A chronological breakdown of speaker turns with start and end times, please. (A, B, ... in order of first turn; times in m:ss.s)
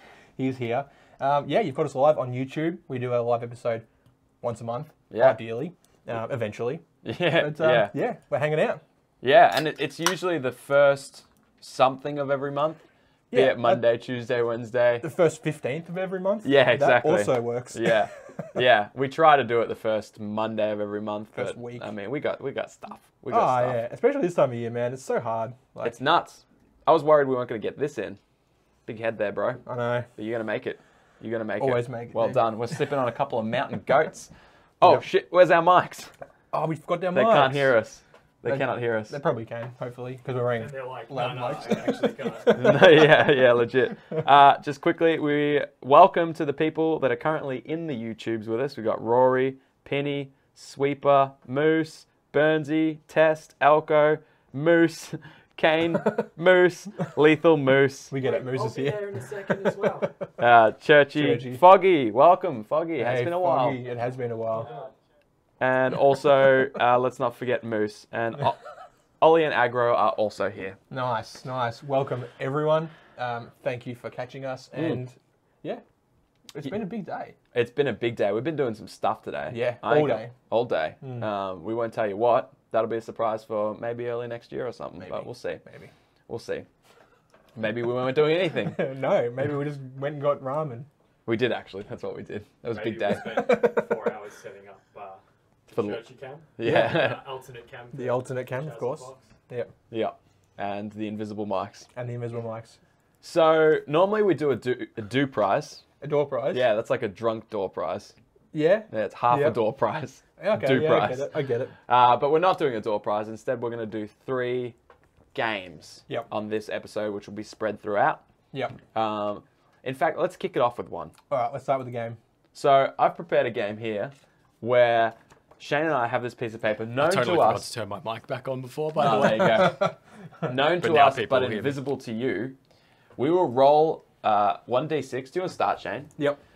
0:00.4-0:03.9 A
0:04.4-0:06.8 A
0:05.1-0:05.4 B
0:07.0-0:07.9 B
0:07.4-0:08.8 A
0:09.2-0:12.8 B
0:13.3-0:13.8 A
0:13.3-0:15.1 B
0:15.0-0:18.5 A
0:16.4-0:23.8 B
0:21.4-0:21.9 A
0:23.3-0:26.0 A
0:25.8-0:28.2 B
0:28.9-0:29.6 B
0:29.7-0:30.1 A
0:30.2-0:36.1 B
0:31.6-0:32.5 A
0:36.5-0:37.7 A
0:37.1-0:39.2 B
0:38.4-0:43.1 A
0:40.6-0:43.0 C
0:42.5-0:58.1 B
0:58.1-1:00.1 A
0:58.2-1:00.1 C
1:00.4-1:03.8 B
1:01.2-1:01.6 A
1:03.0-1:04.7 A
1:04.5-1:04.9 C
1:05.6-1:08.6 B
1:09.2-1:10.8 B
1:10.9-1:15.8 A
1:14.8-1:15.0 B
1:16.5-1:17.4 A
1:17.5-1:25.6 B
1:19.5-1:20.3 A
1:21.0-1:21.3 A
1:25.0-1:25.9 A
1:26.3-1:26.7 B
1:27.6-1:28.8 B
1:28.6-1:30.9 A
1:31.3-1:33.5 B
1:32.7-1:39.3 C
1:33.3-1:33.8 A
1:35.7-1:36.0 B
1:36.6-1:37.2 B
1:36.6-1:37.0 A
1:37.9-1:39.7 A
1:39.9-1:41.9 B
1:42.0-1:42.8 A
1:43.2-1:45.8 B
1:46.0-1:46.7 A
1:46.5-1:48.1 B
1:48.5-1:49.6 A
1:48.9-1:51.3 B
1:50.4-1:51.7 A
1:51.9-1:54.8 B
1:55.3-1:58.2 B
1:58.5-1:58.8 A
1:58.9-2:01.1 B
2:01.3-2:02.2 A
2:02.5-2:07.7 B
2:07.0-2:09.8 C
2:09.0-2:09.9 B
2:09.0-2:09.9 A
2:10.4-2:12.6 B
2:10.7-2:11.8 C
2:13.2-2:16.1 B